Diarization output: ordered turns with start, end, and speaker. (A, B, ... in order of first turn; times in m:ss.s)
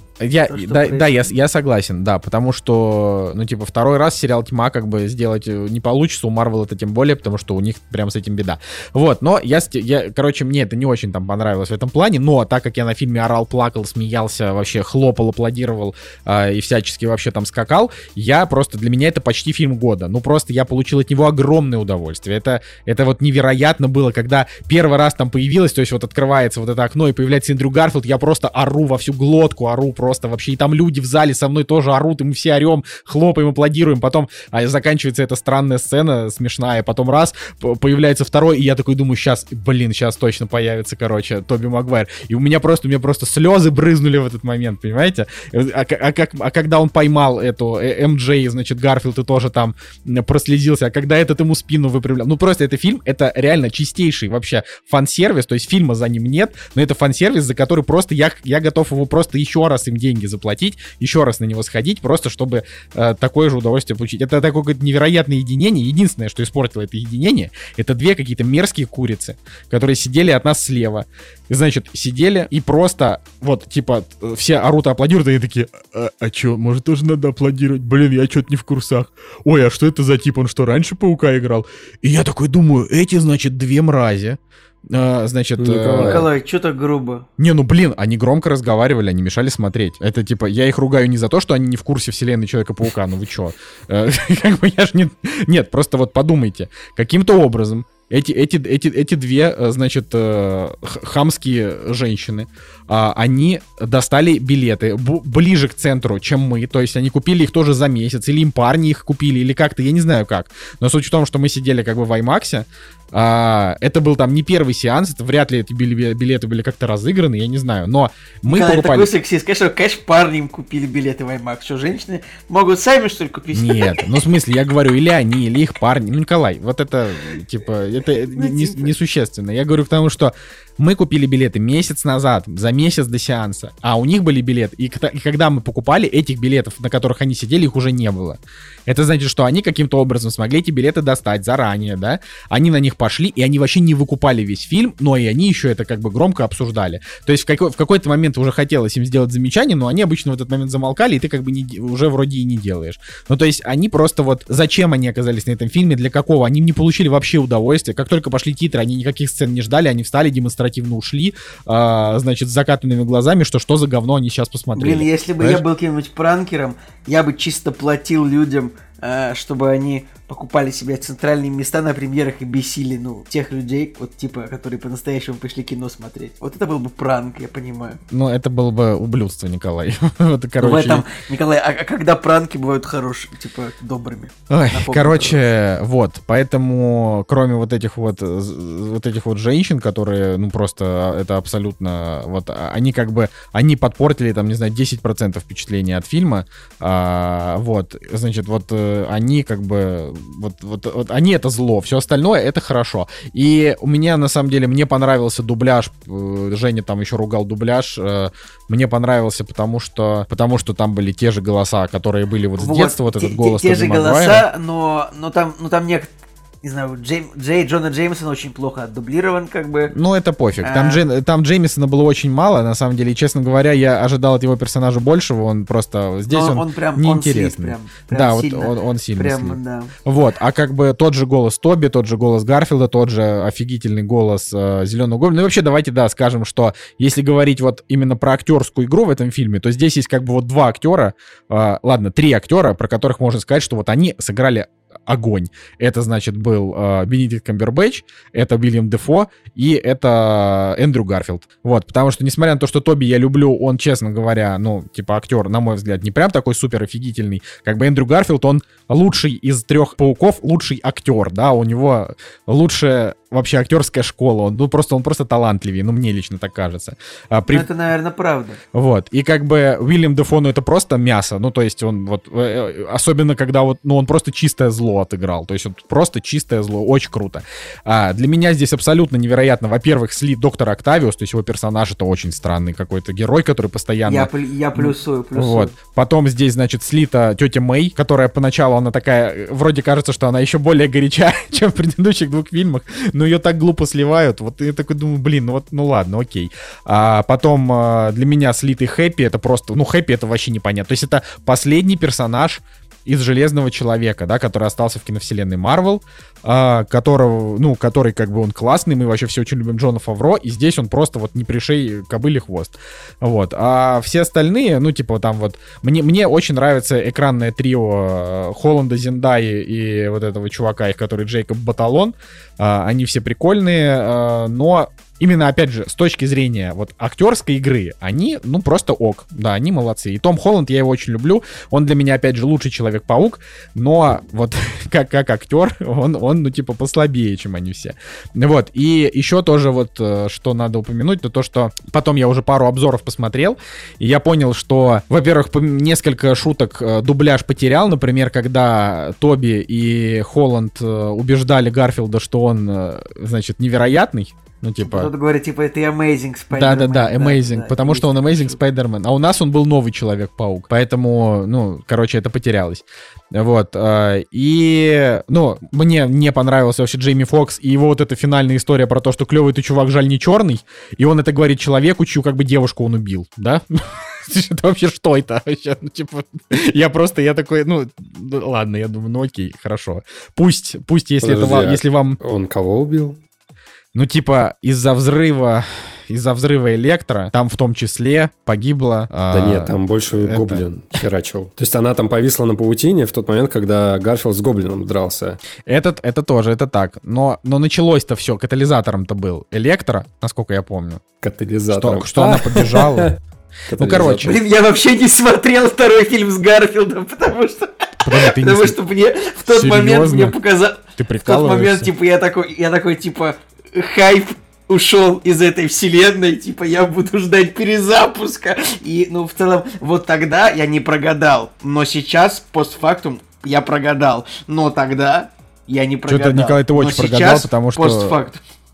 0:00.2-1:26.3 A
0:00.5-0:01.3 B
1:25.6-1:26.3 C
1:26.0-1:27.3 B
1:27.4-1:59.1 A
1:58.5-2:04.1 B
2:03.5-2:45.6 A
2:08.3-2:08.9 B
2:44.8-2:58.0 B
2:58.1-3:01.0 A
3:00.6-3:05.4 B
3:04.5-3:34.4 A
3:32.6-3:36.1 B
3:36.6-3:39.9 B
3:39.9-4:27.7 A
3:40.6-3:41.0 B
3:46.3-3:49.9 B
4:27.5-4:28.6 B
4:28.7-5:55.1 A
4:44.1-4:45.7 B
5:54.8-5:58.6 B
5:56.5-6:02.8 A
6:03.3-6:22.2 A
6:21.2-6:23.2 C
6:23.9-6:30.6 A
6:29.3-6:35.4 C
6:35.7-6:41.0 A
6:41.2-6:43.1 C
6:41.7-6:43.2 A
6:43.7-6:44.4 C
6:43.7-6:44.4 A
6:44.2-7:08.4 B
6:48.0-6:48.8 A
6:49.5-6:50.4 A
6:51.0-6:51.9 A
7:06.1-7:08.2 A